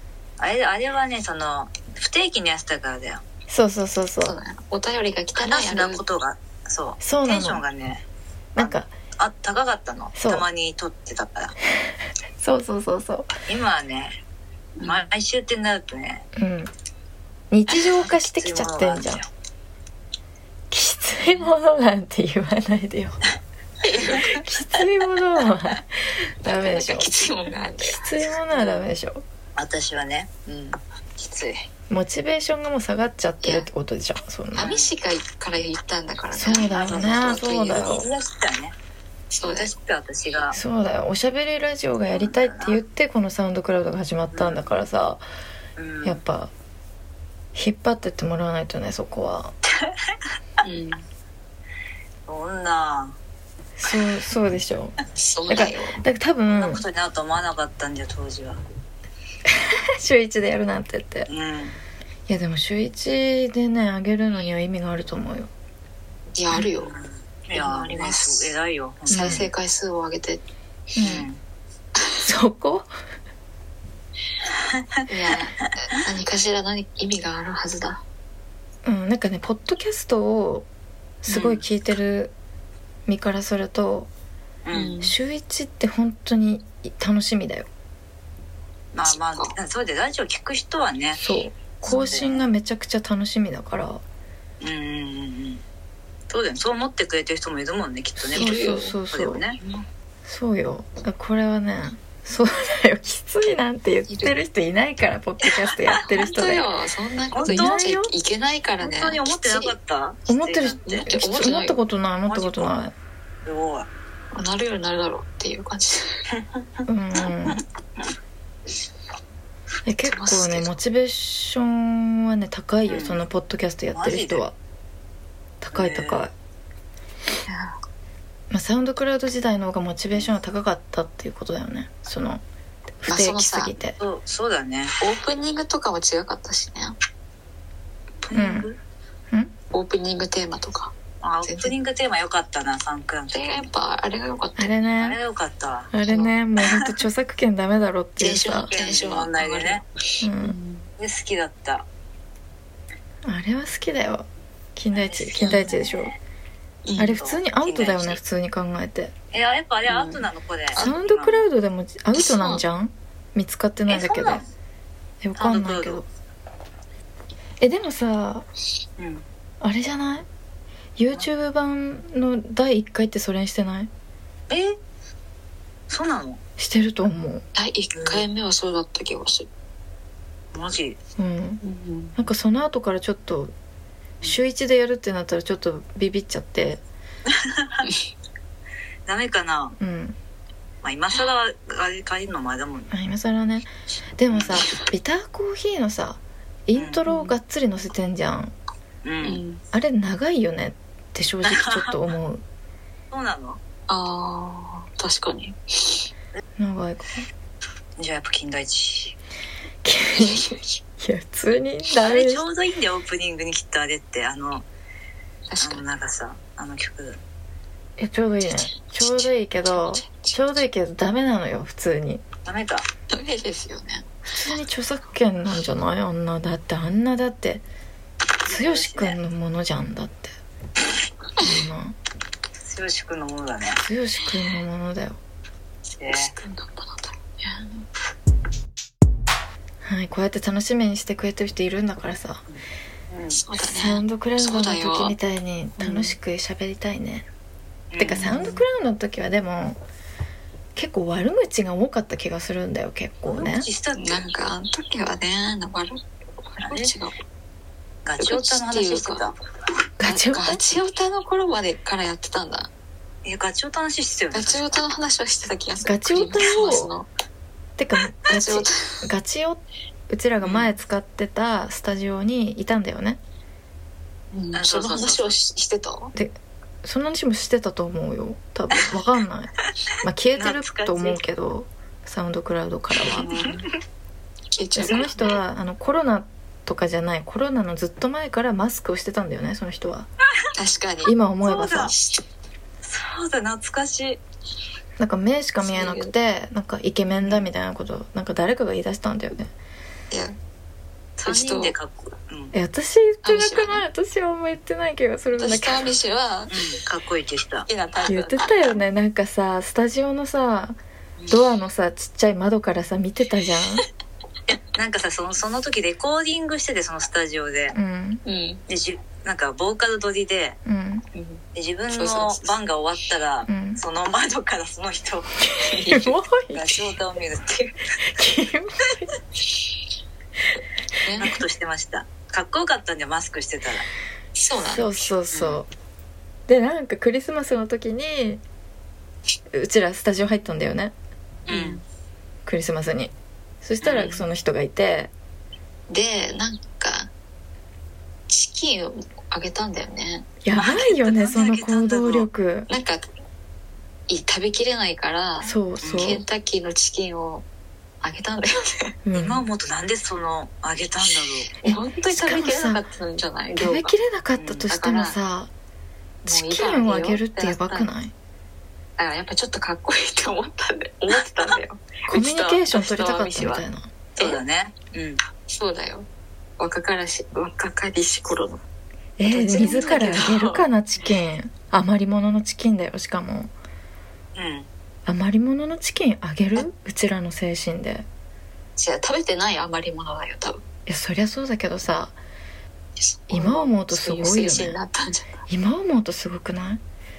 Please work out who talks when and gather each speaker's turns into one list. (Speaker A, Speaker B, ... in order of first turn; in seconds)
Speaker A: 0.4-3.2, 5.4-8.0, 8.6-11.6, 13.5-14.2, 14.8-16.3, 18.0-19.3, 29.6-31.6, 34.6-34.9, 36.7-38.8, 39.5-40.6, 42.1-42.8, 44.3-44.7, 45.8-46.2, 52.3-53.2, 56.5-58.6, 61.3-61.8, 66.8-69.5, 71.0-71.4, 81.3-81.6, 84.7-85.0, 88.9-91.2, 91.8-92.5, 94.6-95.6, 96.3-99.6, 107.3-107.8, 108.8-111.1, 112.3-112.8, 113.5-113.9, 122.9-123.2, 123.9-124.5, 125.7-126.2, 134.0-134.9, 138.2-138.8, 141.2-143.7, 145.0-145.9, 148.5-149.8, 151.0-151.8, 154.9-156.2, 157.0-158.2, 159.3-161.5, 163.9-164.5, 165.4-166.1, 169.0-169.2, 174.5-174.8, 175.9-176.4, 177.9-178.2, 180.5-181.0, 187.3-187.9, 189.1-189.8, 190.8-192.9, 194.3-194.6, 196.7-197.0, 199.0-199.4, 201.4-201.9, 203.1-203.6, 208.0-209.2, 212.0-214.7, 215.6-217.2, 222.4-222.9, 228.4-229.2, 232.6-233.8, 236.0-236.3, 243.1-243.4, 247.9-248.4, 253.3-254.3, 256.6-256.9, 258.1-259.4, 263.2-264.8, 270.4-270.7, 274.5-275.3, 280.4-281.2, 283.2-283.5, 291.4-291.9, 292.8-294.2, 297.2-297.5, 301.2-302.5, 306.5-307.7, 314.5-317.8, 318.7-320.6, 321.6-325.5, 326.5-328.1, 331.2-333.9, 335.3-335.6, 341.5-341.8, 343.8-344.2, 350.6-352.3, 355.8-356.2, 359.1-361.5, 364.4-364.7, 374.2-375.2, 384.4-384.7
Speaker B: 3.5-4.4, 7.0-7.6, 8.6-8.9, 10.2-10.5, 12.4-13.3, 16.4-16.7, 17.5-19.2, 20.7-23.2, 24.3-27.1, 27.8-29.2, 31.9-34.7, 36.3-38.1, 40.5-45.2, 46.0-46.5, 47.5-49.5, 53.8-55.0, 55.5-56.9, 59.5-61.3, 62.3-65.5, 69.1-69.5, 71.0-71.3, 72.2-72.9, 78.8-80.7, 81.2-82.3, 83.1-84.1, 85.0-87.7, 91.2-94.0, 98.3-99.4, 100.2-106.7, 107.5-108.1, 110.3-112.9, 116.9-117.6, 119.8-124.5, 125.6-126.3, 128.5-132.4, 133.0-134.0, 138.3-138.7, 144.6-145.2, 145.9-148.7, 150.2-150.6, 153.2-156.1, 157.0-159.1, 160.8-164.4, 165.2-166.1, 167.6-168.5, 169.6-170.3, 171.0-173.9, 176.6-177.4, 181.2-181.6, 182.2-183.5, 184.2-186.8, 189.8-190.2, 192.9-198.5, 199.7-202.4, 206.6-207.3, 209.8-212.4, 218.0-222.2, 224.3-227.6, 228.5-230.3, 231.4-232.0, 233.8-235.2, 239.8-242.4, 243.7-247.3, 248.0-249.8, 250.8-253.7, 260.0-260.6, 265.8-266.9, 267.8-273.2, 276.1-283.3, 284.8-290.1, 291.0-291.9, 295.0-299.5, 302.5-305.9, 308.1-310.8, 311.3-313.9, 317.7-318.2, 320.7-321.1, 323.5-323.8, 325.5-326.9, 328.0-329.1, 334.6-335.7, 336.5-338.4, 339.5-340.9, 342.4-345.1, 350.4-352.7, 355.4-356.2, 359.1-359.5, 361.6-362.8, 363.6-365.5, 366.2-368.1, 372.1-373.9, 379.2-383.5, 385.1-388.1, 390.9-392.2, 393.3-394.8, 395.5-396.8
Speaker C: 4.2-6.0, 14.8-15.1, 23.8-24.4, 26.4-28.4, 33.4-33.7, 34.5-38.0, 39.3-39.8, 50.6-51.0, 55.1-56.0, 66.4-66.9, 67.5-68.5, 69.1-70.4, 75.1-78.0, 84.7-85.2, 89.1-89.5, 91.9-92.3, 98.3-99.0, 104.1-104.3, 106.0-109.7, 110.9-111.8, 114.3-116.2, 120.0-120.7, 127.5-127.8, 133.1-133.8, 135.0-136.9, 139.7-141.7, 143.3-144.8, 146.1-146.3, 148.2-149.8, 150.4-150.9, 155.4-155.8, 156.9-157.2, 159.9-160.9, 162.2-162.6, 177.6-179.5, 181.6-182.2, 197.1-197.3, 199.2-199.6, 203.9-206.1, 210.2-210.7, 215.5-215.8, 219.0-220.6, 223.1-224.1, 236.1-237.9, 243.3-245.2, 245.8-246.1, 248.1-248.6, 254.0-257.2, 258.2-259.3, 260.1-262.7, 264.3-267.1, 268.3-269.0, 274.3-276.1, 283.1-283.7, 284.6-285.3, 290.5-291.1, 291.8-292.2, 295.6-296.1, 300.1-300.4, 301.2-301.8, 303.2-303.8, 305.4-306.7, 307.7-308.8, 318.2-318.6, 321.1-322.5, 325.6-326.2, 331.0-331.4, 334.4-335.1, 341.5-341.8, 345.9-347.1, 348.3-350.3, 352.7-353.0, 354.1-357.5, 358.0-359.0, 361.1-363.9, 364.7-365.2, 366.3-367.9, 369.0-373.6, 375.5-376.1, 376.6-378.6, 379.2-380.7, 388.8-390.6, 393.0-395.4